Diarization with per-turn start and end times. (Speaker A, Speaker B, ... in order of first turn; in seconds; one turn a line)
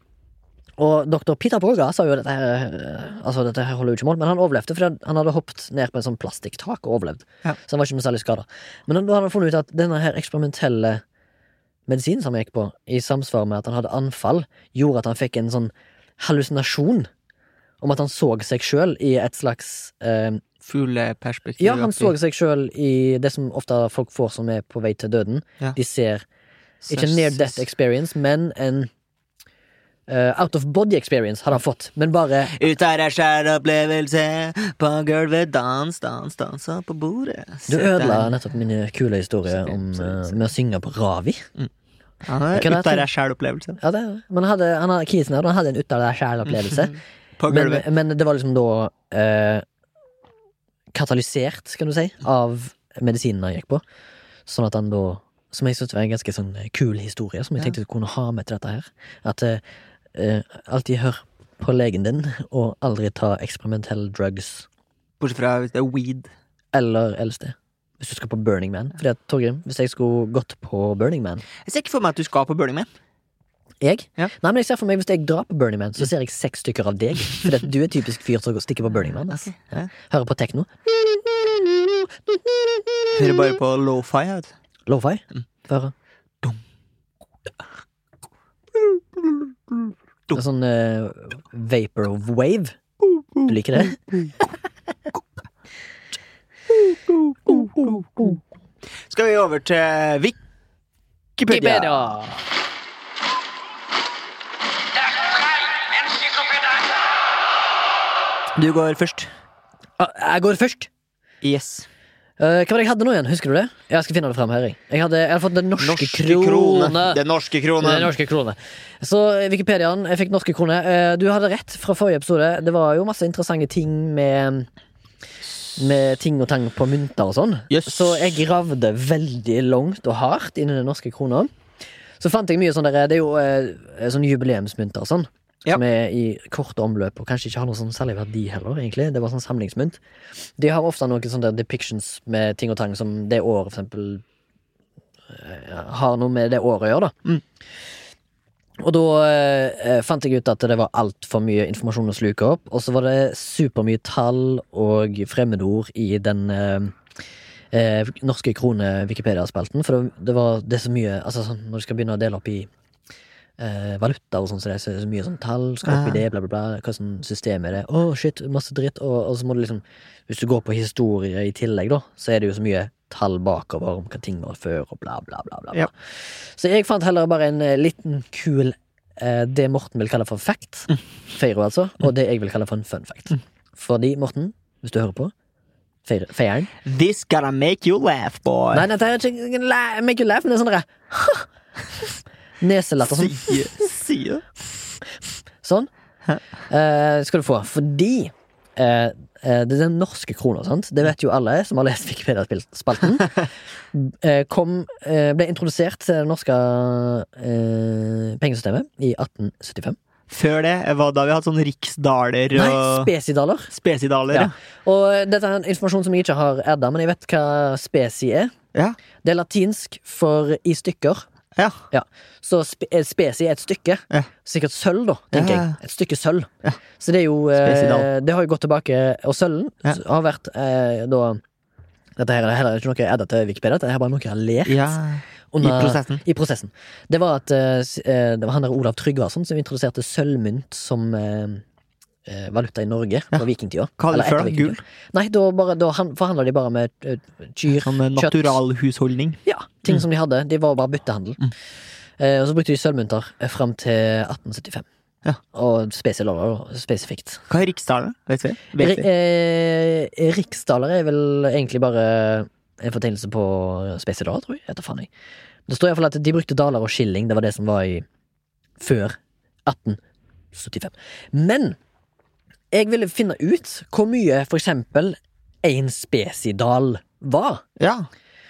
Speaker A: 0.8-11.0
Speaker A: 11.9-17.1
Speaker A: 17.8-20.4
Speaker B: 20.6-22.1
Speaker A: 21.6-26.2
Speaker B: 26.8-27.6
Speaker A: 26.9-28.9
Speaker A: 30.1-32.6
Speaker B: 32.5-38.3
Speaker A: 37.7-41.5
Speaker B: 39.5-40.3
Speaker B: 42.2-43.8
Speaker A: 42.5-43.0
Speaker A: 43.8-47.0
Speaker B: 46.7-47.8
Speaker A: 47.5-49.6
Speaker A: 50.9-53.8
Speaker A: 54.5-59.6
Speaker A: 60.1-64.7
Speaker B: 65.2-66.3
Speaker A: 66.7-71.4
Speaker B: 71.6-72.9
Speaker A: 73.8-80.8
Speaker B: 79.3-79.9
Speaker B: 83.1-84.5
Speaker A: 84.9-85.9
Speaker B: 88.7-90.4
Speaker A: 90.3-92.8
Speaker B: 93.2-94.5
Speaker A: 93.4-94.0
Speaker B: 97.3-98.3
Speaker A: 97.5-98.3
Speaker B: 99.1-100.4
Speaker B: 101.4-102.2
Speaker A: 101.5-102.4
Speaker B: 108.5-109.3
Speaker A: 110.0-110.9
Speaker B: 111.4-111.9
Speaker A: 112.4-117.2
Speaker B: 115.8-118.1
Speaker A: 117.8-124.7
Speaker A: 125.8-131.5
Speaker B: 127.7-128.4
Speaker A: 132.2-140.0
Speaker A: 140.6-144.2
Speaker A: 145.3-147.2
Speaker A: 148.8-157.0
Speaker A: 157.7-162.7
Speaker A: 163.6-175.9
Speaker B: 165.8-166.2
Speaker A: 176.4-185.3
Speaker A: 186.1-186.7
Speaker B: 186.8-188.8
Speaker A: 188.7-191.5
Speaker A: 192.6-193.8
Speaker B: 193.0-194.5
Speaker A: 195.6-195.9
Speaker A: 196.7-210.0
Speaker B: 210.3-213.1
Speaker A: 212.5-213.7
Speaker B: 213.7-214.5
Speaker A: 214.3-218.5
Speaker A: 219.2-221.2
Speaker B: 221.6-221.8
Speaker A: 221.9-226.5
Speaker B: 225.3-225.8
Speaker A: 227.0-231.4
Speaker B: 227.6-228.1
Speaker A: 232.2-235.0
Speaker B: 234.7-236.2
Speaker A: 235.5-241.6
Speaker A: 242.2-248.6
Speaker B: 244.0-244.8
Speaker B: 247.7-249.4
Speaker A: 249.4-251.5
Speaker A: 252.2-254.8
Speaker A: 255.5-257.4
Speaker B: 257.5-259.1
Speaker A: 258.8-265.1
Speaker A: 265.7-268.0
Speaker A: 268.8-270.0
Speaker A: 270.5-271.8
Speaker A: 272.7-277.6
Speaker B: 277.8-278.1